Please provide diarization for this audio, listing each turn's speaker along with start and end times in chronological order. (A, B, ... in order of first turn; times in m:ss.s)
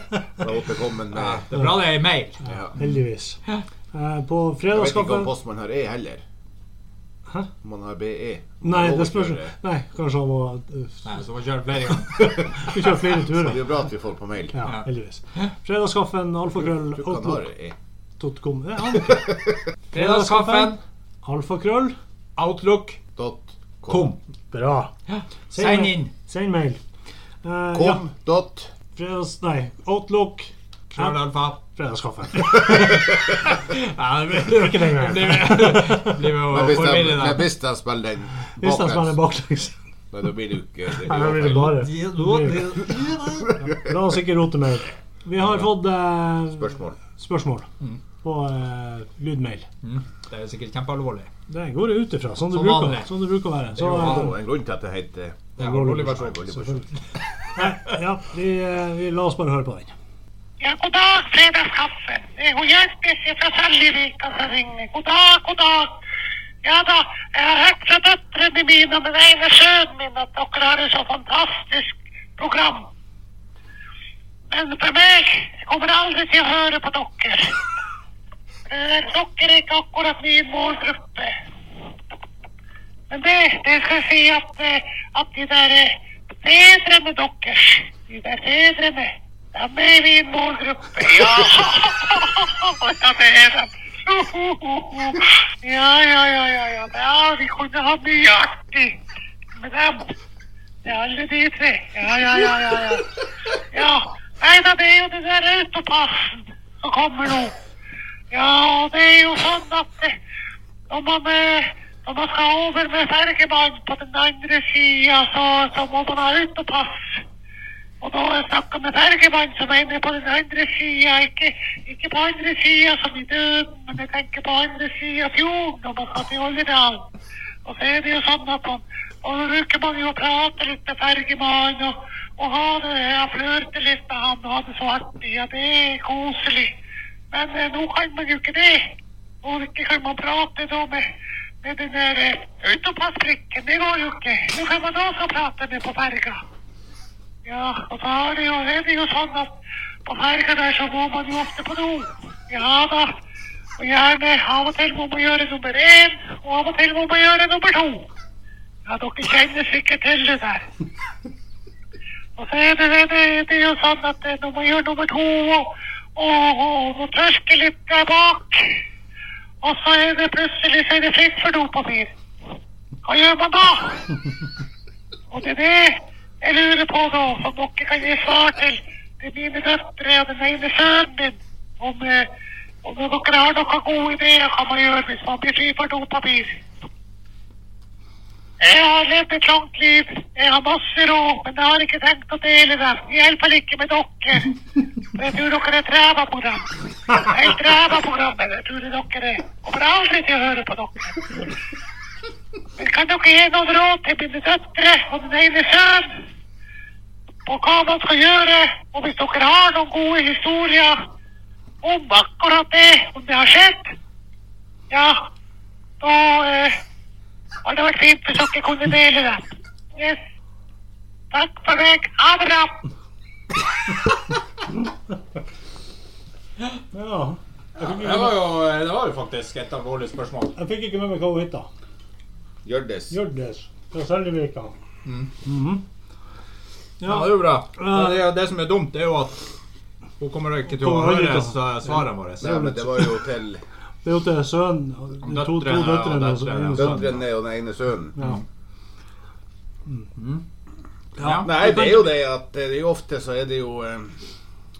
0:00.4-0:01.5 A
0:01.1-0:02.4 B
0:02.4-0:02.7 A
0:02.8-0:03.4 C
0:03.9-0:05.3 C
0:04.7-0:06.2 A
0:07.6-0:09.5 A
0:08.6-0:11.1 C
0:11.0-0:12.5 B
0:12.1-0:13.7 C
0:13.0-0:14.5 A
0:14.5-0:17.5 C
0:16.8-0:17.8 A
0:18.2-0:19.3 C
0:19.9-0:20.8 B
0:19.9-0:22.0 C
0:22.4-0:23.0 B
0:23.2-0:24.1 A
0:23.9-0:24.2 B
0:24.5-0:24.9 C
0:25.1-0:26.1 B
0:25.5-0:26.8 C
0:27.4-0:28.0 C
0:27.7-0:28.7 A
0:29.0-0:33.0 C
0:30.9-0:31.6 B
0:32.6-0:37.5 B
0:34.4-0:36.2 C
0:36.5-0:39.2 A
0:38.6-0:39.7 C
0:40.1-0:41.8 A
0:41.0-0:42.9 C
0:41.5-0:43.5 B
0:43.6-0:47.7 C
0:46.5-0:47.0 A
0:48.2-0:49.7 C
0:49.8-0:51.3 B
0:51.5-0:54.3 C
0:52.5-0:53.1 B
0:53.8-0:54.3 B
0:53.8-0:56.8 A
0:55.6-0:56.4 B
0:55.6-0:56.8 C
0:57.5-0:59.9 C
1:00.6-1:05.9 D
1:06.6-1:12.9 D
1:14.5-1:17.5 D
1:18.7-1:21.3 D
1:23.1-1:38.9 D
1:39.6-1:40.1 D
1:40.8-1:43.2 D
1:43.7-1:47.5 D
1:48.3-1:50.1 D
1:50.9-1:57.2 D
1:58.0-2:07.1 D
2:07.6-2:16.7 D
2:17.3-2:21.0 D
2:21.6-2:26.4 D
2:27.4-2:29.5 D
2:30.0-2:33.1 D
2:33.8-2:38.1 D
2:38.8-2:40.6 D
2:42.4-2:48.7 D
2:49.6-2:52.1 D
2:53.0-2:54.2 D
2:55.3-3:02.3 D
3:02.8-3:06.6 D
3:08.6-3:14.6 D
3:15.1-3:21.4 D
3:22.8-3:26.2 D
3:27.4-3:31.0 D
3:31.8-3:33.9 D
3:34.9-3:35.2 D
3:36.0-3:36.8 D
3:37.6-3:39.4 D
3:41.3-3:42.8 D
3:46.9-3:48.4 C
3:47.8-3:50.5 B
3:50.6-3:51.7 C
3:52.6-3:53.1 A
3:53.1-3:54.7 C
3:55.0-3:55.3 B
3:55.4-3:55.8 C
3:57.0-3:58.2 C
3:57.0-3:59.5 B
4:00.2-4:02.6 B
4:00.7-4:03.1 C
4:02.4-4:03.6 A
4:04.0-4:07.1 C
4:05.2-4:07.2 B
4:06.7-4:08.2 A
4:08.2-4:08.4 C
4:08.2-4:08.4 B
4:10.2-4:10.4 B
4:11.2-4:11.5 B
4:11.2-4:11.9 C
4:11.3-4:14.2 A